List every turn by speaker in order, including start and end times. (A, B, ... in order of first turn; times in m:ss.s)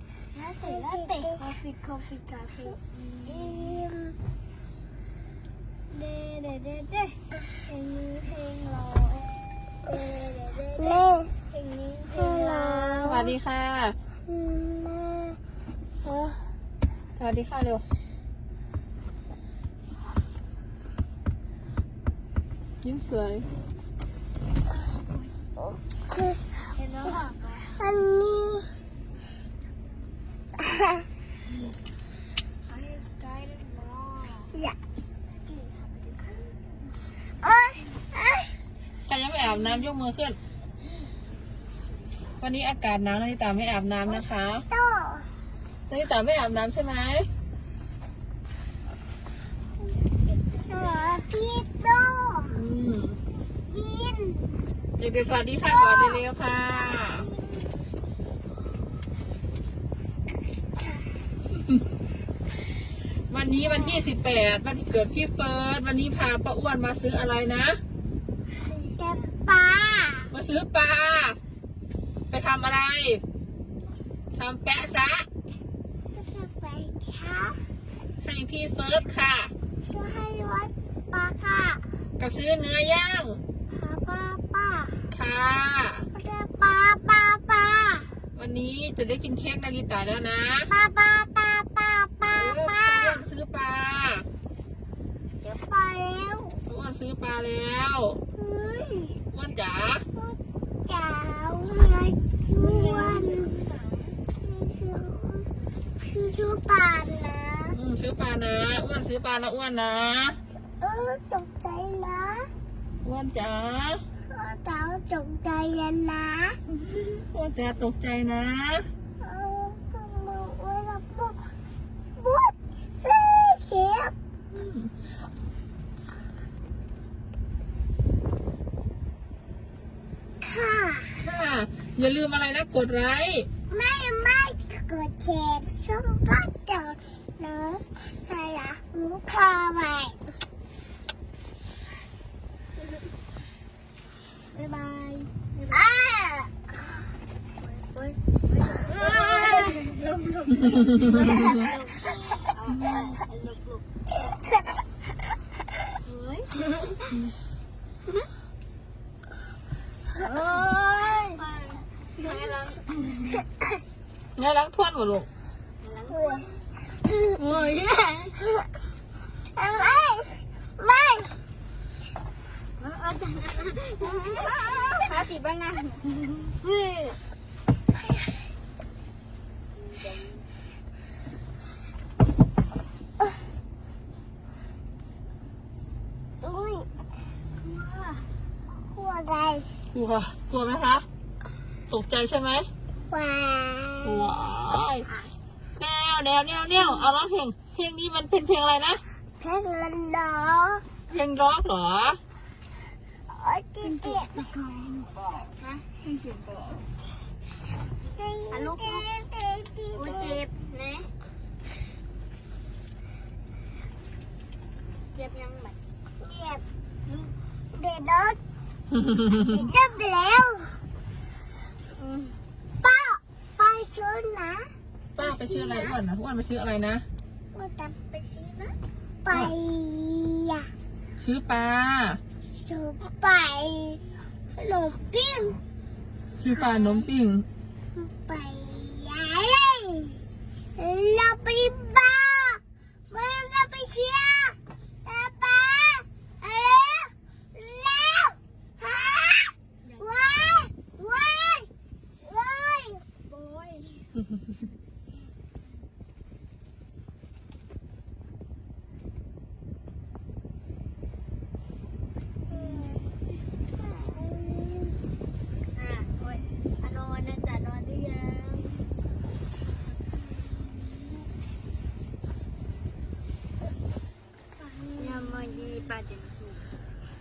0:00.3-0:03.9 A
0:00.6-0:01.6 B
0:03.2-0:04.2 B
0:05.9-0:09.3 A
0:09.9-0:13.2 A
0:10.8-0:11.4 B
0:12.1-0:13.3 B
0:13.0-0:14.0 C
0:14.3-0:15.4 B
0:16.0-0:16.4 B
0:17.2-0:17.8 C
0:22.8-0:23.5 C
0:25.6-0:26.4 B
0:26.8-0:27.7 A
0:27.7-0:28.7 B
0:32.7-0:34.5 A
0:35.5-0:36.6 A
0:37.4-0:38.5 B
0:39.1-0:40.4 C
0:42.4-0:44.6 C
0:44.1-0:45.3 B
0:45.9-0:47.3 C
0:50.7-0:52.6 B
0:50.7-0:51.2 A
0:52.5-0:53.2 C
0:53.7-0:54.6 B
0:55.0-0:57.3 C
0:55.6-0:57.8 B
1:03.3-1:07.8 C
1:03.6-1:04.0 B
1:09.0-1:10.3 B
1:10.3-1:11.4 C
1:12.3-1:13.2 C
1:14.4-1:15.3 C
1:16.1-1:17.6 B
1:18.2-1:19.5 C
1:19.8-1:21.8 B
1:22.2-1:23.4 C
1:23.7-1:25.1 B
1:25.1-1:26.1 C
1:26.1-1:28.1 B
1:28.4-1:30.7 C
1:30.7-1:33.2 B
1:32.3-1:34.3 C
1:35.4-1:36.6 B
1:36.7-1:38.2 C
1:38.3-1:39.2 B
1:39.3-1:40.0 C
1:40.1-1:43.6 B
1:42.6-1:44.2 A
1:44.4-1:45.5 B
1:46.0-1:47.8 B
1:47.7-1:50.4 C
1:50.8-1:52.5 B
1:53.0-1:54.0 C
1:54.3-1:56.6 B
1:57.0-1:58.9 C
1:59.2-2:01.4 B
2:02.2-2:04.1 B
2:04.5-2:04.9 C
2:10.4-2:11.2 B
2:11.2-2:13.5 C
2:13.7-2:20.2 B
2:24.6-2:25.9 A
2:25.7-2:26.5 B
2:27.6-2:33.8 A
2:29.0-2:29.8 B
2:36.0-2:37.0 A
2:40.2-2:43.3 A
2:40.4-2:41.4 B
2:44.4-2:45.3 C
2:45.8-2:46.5 A
2:46.1-2:46.6 B
2:47.4-2:48.4 A
2:49.6-2:51.4 B
2:52.8-2:57.2 A
2:53.9-2:54.8 B
3:06.4-3:06.9 B
3:07.6-3:08.3 A
3:08.7-3:09.7 B
3:09.9-3:11.0 C
3:11.9-3:12.7 C
3:13.1-3:14.3 B
3:14.0-3:15.1 C
3:15.8-3:19.0 C
3:19.4-3:20.8 B
3:21.1-3:22.2 C
3:23.3-3:24.5 B
3:23.8-3:26.8 A
3:28.2-3:30.4 B
3:28.5-3:29.1 A
3:29.9-3:31.1 A
3:35.2-3:35.8 A
3:36.2-3:36.6 B
3:37.1-3:37.3 A
3:37.7-3:38.4 B
3:39.3-3:40.8 B
3:42.0-3:42.4 A
3:42.8-3:44.7 B
3:45.2-3:47.0 C
3:45.2-3:46.0 B
3:47.5-3:48.7 B
3:49.2-3:50.7 B
3:51.2-3:52.2 C
3:52.5-3:55.6 B
3:56.4-3:57.5 C
3:56.5-3:57.1 B
3:58.0-4:00.2 B
4:00.8-4:11.7 B
4:09.8-4:10.6 A
4:12.2-4:13.1 B
4:13.2-4:14.1 A
4:22.5-4:22.9 A
4:22.5-4:23.0 B
4:23.8-4:24.9 B
4:25.8-4:28.9 A
4:34.8-4:36.7 A
4:35.0-4:35.7 B